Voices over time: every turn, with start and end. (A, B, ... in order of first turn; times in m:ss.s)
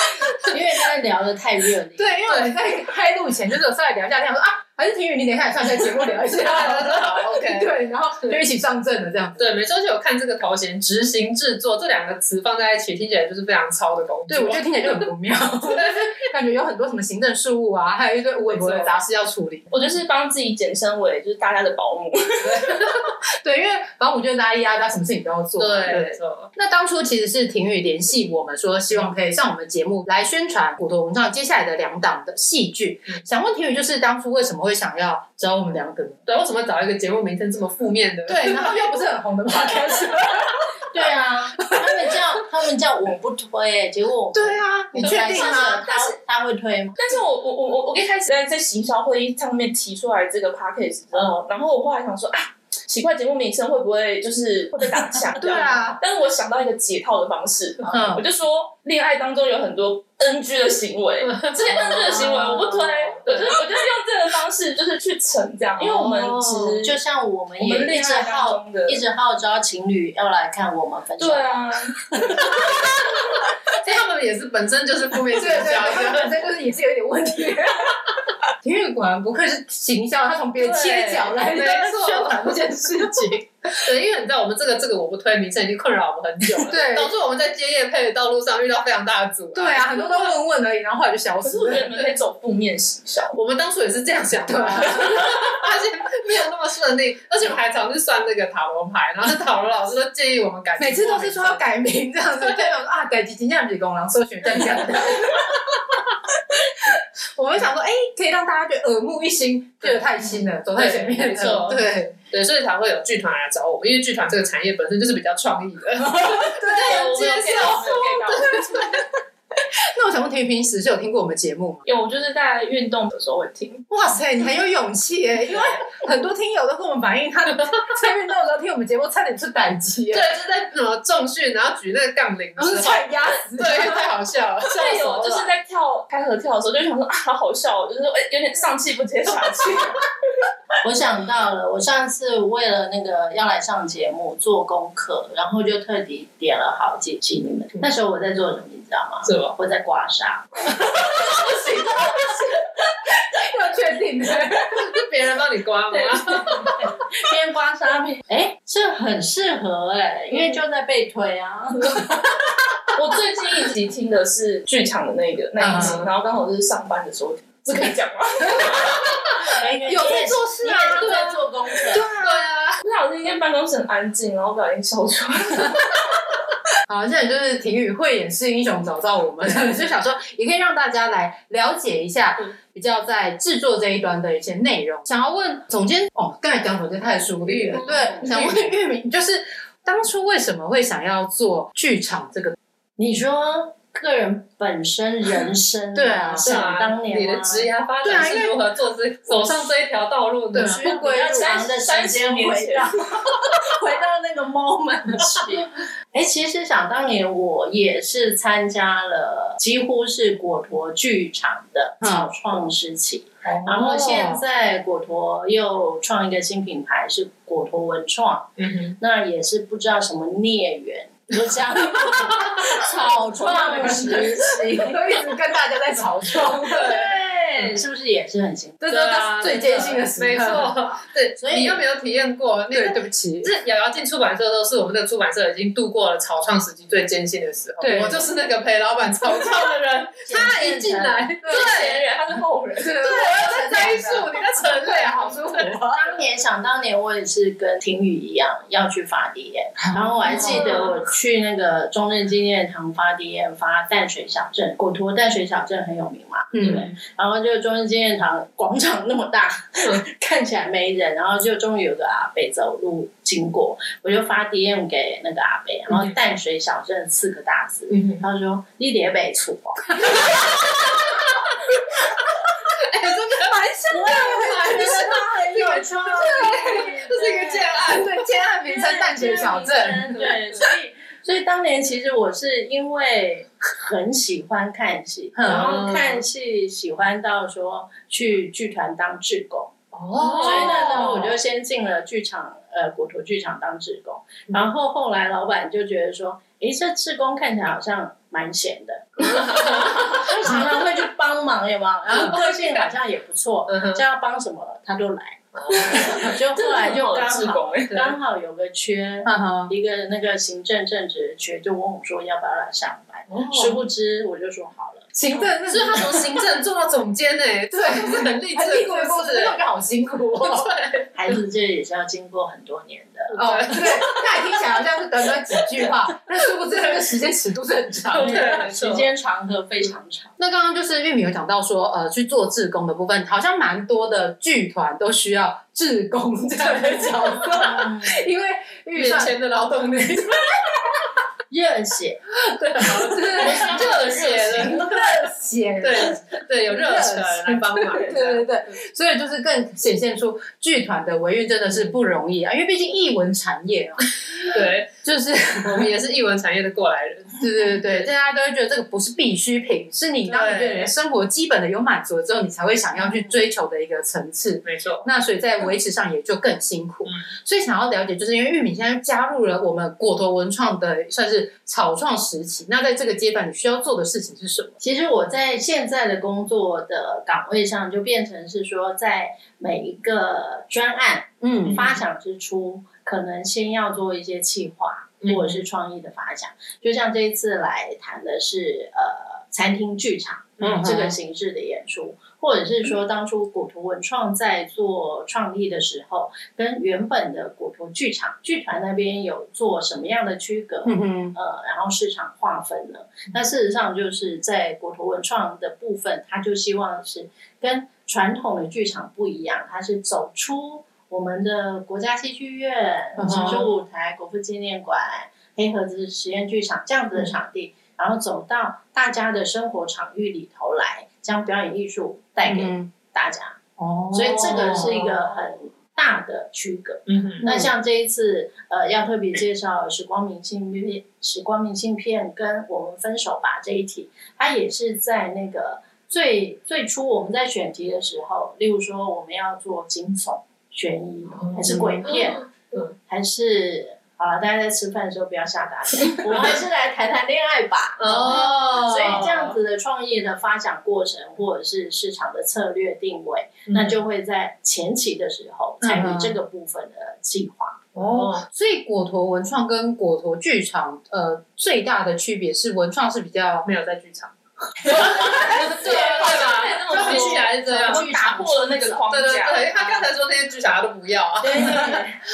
0:00.5-0:02.2 A
0:02.0-0:09.6 B
0:02.3-0:02.6 C
0:06.3-0:07.7 C
0:09.4-0:15.1 C
0:14.3-0:19.7 B
0:15.7-0:16.1 C
0:18.5-0:19.0 C
0:19.7-0:22.8 D
0:22.6-0:36.2 B
0:25.6-0:26.5 C
0:36.3-0:38.9 C
0:38.3-0:40.7 B
0:40.9-0:47.0 A
0:44.3-0:46.2 B
0:45.0-0:45.6 C
0:47.0-1:07.0 D
0:55.4-0:56.0 B
0:57.9-0:58.3 B
1:01.2-1:03.4 C
1:05.9-1:06.8 C
1:06.8-1:11.6 A
1:07.6-1:09.0 D
1:11.2-1:12.5 D
1:13.7-1:16.5 C
1:15.3-1:23.8 B
1:20.6-1:30.4 C
1:26.5-1:27.1 B
1:29.5-1:31.9 B
1:31.4-1:33.4 D
1:31.9-1:32.2 C
1:33.3-1:41.6 C
1:34.4-1:35.6 B
1:40.8-1:52.2 B
1:44.5-1:44.8 C
1:49.8-1:59.1 C
1:56.0-1:57.1 B
1:56.7-1:58.6 D
1:58.6-1:59.0 B
1:59.8-2:01.9 B
2:01.9-2:03.8 D
2:03.9-2:10.4 B
2:10.1-2:15.5 C
2:12.6-2:14.1 B
2:14.8-2:20.1 D
2:20.8-2:30.5 A
2:29.2-2:29.6 C
2:30.7-2:34.9 B
2:34.7-2:36.7 C
2:36.4-2:36.7 B
2:36.8-2:42.2 A
2:43.0-2:49.1 D
2:45.6-2:46.0 B
2:45.7-2:46.1 C
2:49.5-2:52.1 A
2:49.9-2:51.3 B
2:50.7-2:51.4 C
2:51.9-2:52.5 B
2:52.0-2:52.8 C
2:52.8-2:56.2 D
2:56.9-3:12.6 B
3:07.5-3:08.2 A
3:07.7-3:08.5 C
3:13.0-3:17.7 A
3:16.0-3:16.5 B
3:16.4-3:20.9 C
3:18.0-3:18.6 B
3:19.3-3:19.7 B
3:20.5-3:21.4 B
3:20.7-3:45.2 A
3:21.3-3:22.9 D
3:32.0-3:32.3 B
3:33.4-3:34.4 B
3:38.6-3:39.0 C
3:42.1-3:42.7 B
3:43.3-3:47.1 B
3:46.7-3:47.8 C
3:46.7-3:48.9 A
3:48.9-3:50.9 B
3:48.9-4:02.0 C
3:51.4-3:51.8 A
3:52.7-3:53.5 B
3:57.8-3:58.3 B
3:59.2-3:59.6 B
4:00.2-4:01.3 A
4:01.4-4:01.8 B
4:01.5-4:03.4 D
4:02.8-4:06.1 B
4:03.0-4:05.7 C
4:05.9-4:30.3 A
4:09.8-4:10.8 B
4:10.4-4:10.9 C
4:16.5-4:16.9 B
4:27.9-4:28.2 C
4:32.8-4:38.2 C
4:33.4-4:35.2 B
4:33.9-4:37.9 A
4:36.2-4:36.8 B
4:37.7-4:40.3 B
4:38.7-4:49.8 A
4:45.4-4:45.8 B
4:45.4-4:46.2 C
4:50.0-4:51.4 B
4:50.1-4:51.1 C
4:50.4-5:15.2 A
4:59.2-5:00.2 C
5:02.2-5:02.8 C
5:03.7-5:04.0 C
5:05.6-5:06.0 C
5:05.8-5:08.1 D
5:09.2-5:09.7 B
5:13.3-5:13.8 C
5:15.2-5:16.5 B
5:15.4-5:19.6 C
5:17.7-5:20.7 B
5:20.4-5:21.1 C
5:21.2-5:23.4 A
5:23.3-5:24.5 C
5:23.4-5:28.7 B
5:28.1-5:29.1 C
5:28.1-5:30.3 A
5:30.4-5:39.3 B
5:36.6-5:37.2 C
5:37.3-5:38.2 A
5:39.0-5:40.6 C
5:41.5-5:42.2 A
5:42.6-5:45.0 C
5:42.8-5:44.0 B
5:43.4-5:44.8 D
5:44.6-5:55.9 B
5:45.8-5:48.8 C
5:54.4-5:54.9 C
5:55.6-5:58.1 C
5:57.4-6:14.8 B
6:00.3-6:00.9 C
6:04.6-6:05.0 C
6:14.8-7:03.6 A
6:21.4-6:21.9 B
6:21.7-6:22.0 C
6:25.2-6:25.6 C
6:30.6-6:30.9 C
6:30.6-6:31.2 B
6:40.8-6:41.4 B
6:53.2-6:53.7 B
7:02.4-7:02.9 B
7:03.8-7:05.0 B
7:04.1-7:22.4 A
7:04.6-7:05.1 C
7:07.1-7:07.4 C
7:07.4-7:07.7 B
7:21.4-7:22.9 C
7:21.7-7:22.1 B
7:23.1-7:37.9 A
7:28.0-7:29.6 C
7:28.1-7:29.3 B
7:33.7-7:34.0 C
7:35.8-7:36.4 B
7:38.0-7:38.5 C
7:38.0-7:43.7 B
7:43.6-7:48.1 C
7:44.9-7:46.2 B
7:45.0-7:49.7 D
7:46.9-7:49.3 A
7:49.1-7:52.0 C
7:51.4-7:52.2 A
7:51.5-7:52.0 B